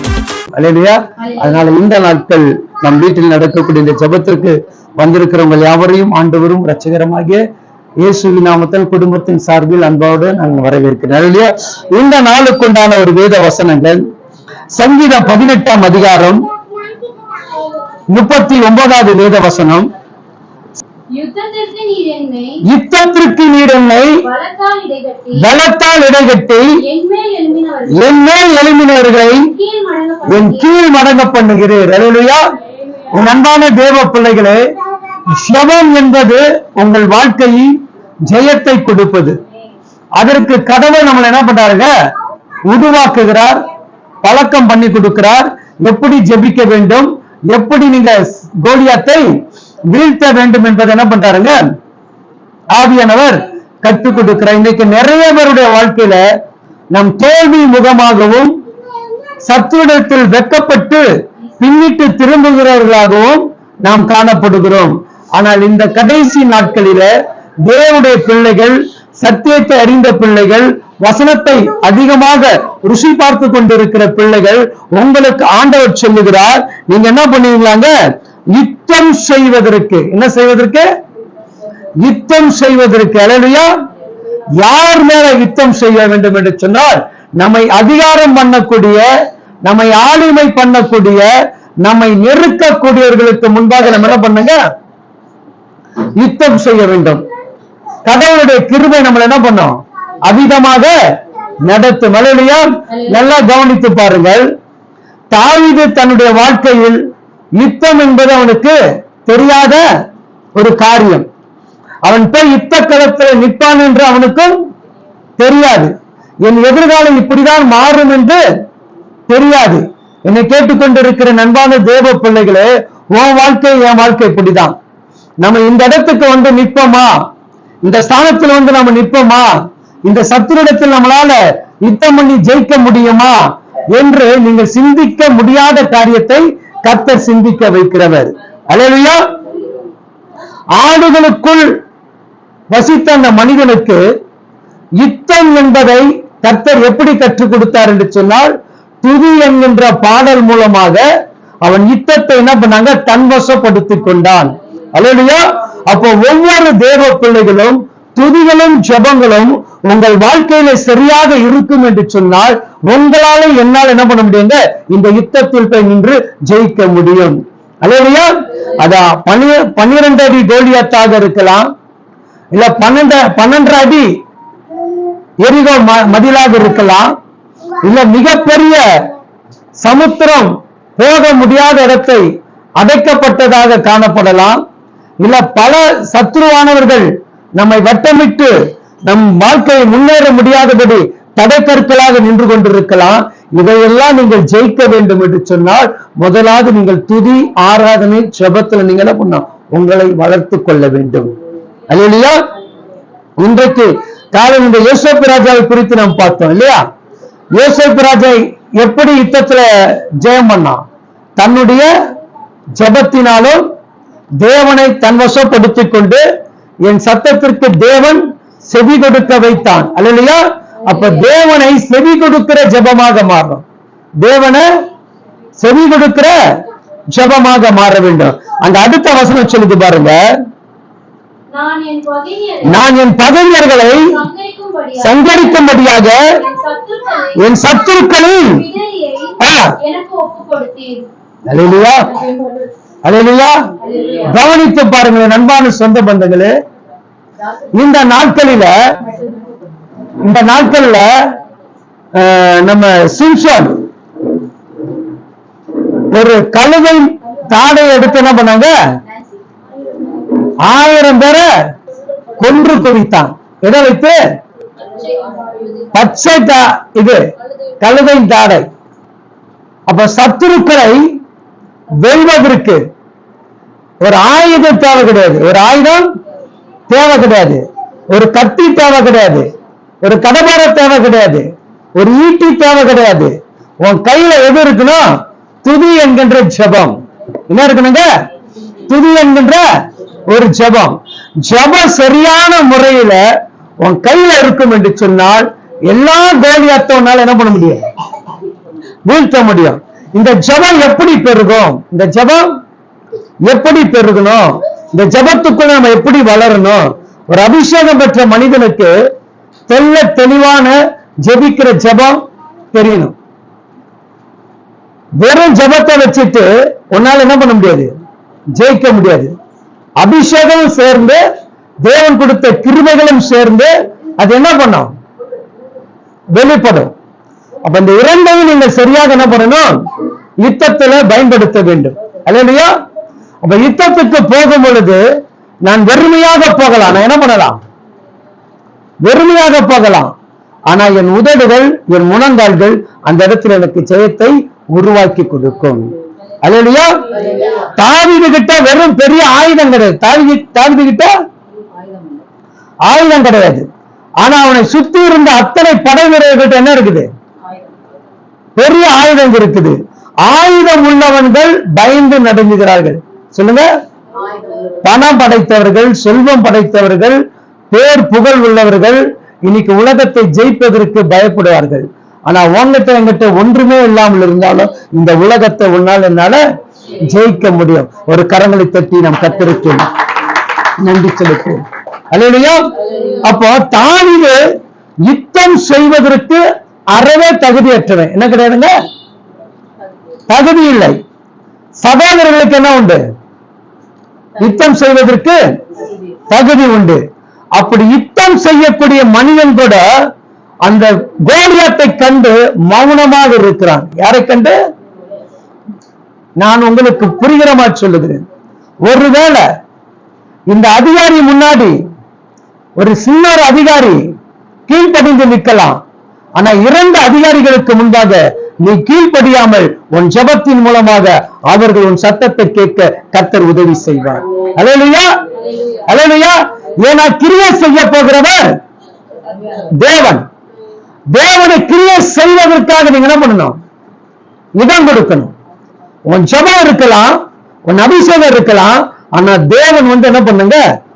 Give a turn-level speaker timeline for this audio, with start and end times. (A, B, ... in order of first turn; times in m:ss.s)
0:00.5-0:07.4 A
0:08.0-0:14.0 A
0:14.7-0:16.4 A
0:18.1-0:19.9 A
0:21.1-0:22.6 B
0:22.6-0:24.2 A
0:24.2-0:25.5 B
0:25.4-0:26.7 A
0:26.8-0:28.1 B
0:27.9-0:29.5 A
0:29.5-0:30.7 B
0:30.3-0:32.4 A
0:33.1-0:34.6 A
0:35.3-0:39.4 A
0:40.2-0:41.9 A
0:42.7-0:43.6 A
0:44.2-0:51.6 A
0:52.7-0:56.2 A
0:56.9-0:58.6 A
0:59.4-1:07.1 A
1:07.6-1:17.9 A
1:18.5-1:20.8 A
1:22.0-1:23.7 A
1:24.6-1:29.0 A
1:29.6-1:31.3 A
1:31.8-1:34.6 A
1:36.2-1:37.2 A
1:38.0-1:40.9 A
1:41.6-1:44.5 A
1:45.3-1:47.0 A
1:47.6-1:49.8 A
1:50.5-1:51.2 A
1:52.0-1:54.5 A
1:55.4-1:55.9 A
1:56.4-1:58.4 A
1:59.3-2:04.8 A
2:05.4-2:07.1 A
2:07.8-2:19.3 A
2:20.8-2:21.7 A
2:22.7-2:24.0 A
2:25.0-2:31.0 A
2:31.6-2:51.7 A
2:52.5-2:54.1 A
2:55.4-2:57.1 A
2:57.8-2:58.8 A
2:59.8-3:02.2 A
3:02.8-3:04.6 A
3:05.2-3:08.5 A
3:09.1-3:21.3 A
3:21.9-3:22.5 A
3:23.4-3:26.8 A
3:27.5-3:30.8 A
3:31.4-3:31.9 A
3:32.8-3:33.6 A
3:34.4-3:36.2 A
3:36.8-3:43.6 A
3:44.2-3:44.7 A
3:45.6-3:46.4 A
3:47.1-3:50.2 A
3:51.5-3:52.9 B
3:52.6-3:54.2 A
3:54.0-3:55.7 B
3:55.0-3:56.2 A
3:56.3-3:57.6 B
3:57.4-3:58.7 A
3:58.5-4:01.1 B
3:59.4-3:59.8 A
4:01.5-4:02.2 A
4:03.0-4:03.6 A
4:03.9-4:04.2 B
4:04.2-4:06.5 A
4:07.7-4:08.8 A
4:10.2-4:11.1 A
4:12.2-4:13.8 A
4:16.1-4:18.7 A
4:20.5-4:21.5 A
4:22.4-4:24.2 A
4:24.9-4:25.8 B
4:25.9-4:27.2 A
4:27.8-4:28.7 A
4:29.9-4:31.1 A
4:31.9-4:32.8 A
4:34.0-4:36.1 A
4:36.9-4:39.5 A
4:40.0-4:45.1 A
4:45.6-4:47.0 A
4:47.5-4:48.1 A
4:48.9-4:49.7 A
4:50.2-4:53.2 A
4:53.8-4:57.8 A
4:59.1-5:02.5 A
5:03.4-5:08.9 A
5:09.7-5:12.2 A
5:12.7-5:13.2 A
5:15.2-5:17.9 A
5:18.5-5:19.3 A
5:20.0-5:21.2 A
5:21.8-5:24.9 A
5:26.3-5:26.9 A
5:27.6-5:29.8 A
5:30.4-5:32.7 A
5:33.4-5:35.0 A
5:35.6-5:37.6 A
5:39.0-5:40.1 A
5:40.7-5:51.1 A
5:51.8-5:52.2 B
5:52.9-5:53.7 A
5:54.2-5:57.1 A
5:58.6-6:03.7 A
6:04.8-6:07.2 A
6:07.7-6:19.9 A
6:20.8-6:24.4 A
6:25.1-6:28.8 A
6:30.3-6:31.0 A
6:31.8-6:33.0 A
6:34.4-6:35.4 A
6:36.3-6:37.0 A
6:37.6-6:39.8 A
6:40.6-6:44.6 A
6:46.4-6:48.2 A
6:48.8-6:49.4 A
6:50.5-6:51.8 A
6:52.8-6:54.0 A
6:54.7-6:55.8 A
6:56.4-7:08.5 A
7:09.5-7:10.2 A
7:11.1-7:13.6 A
7:14.6-7:15.3 A
7:16.1-7:20.6 A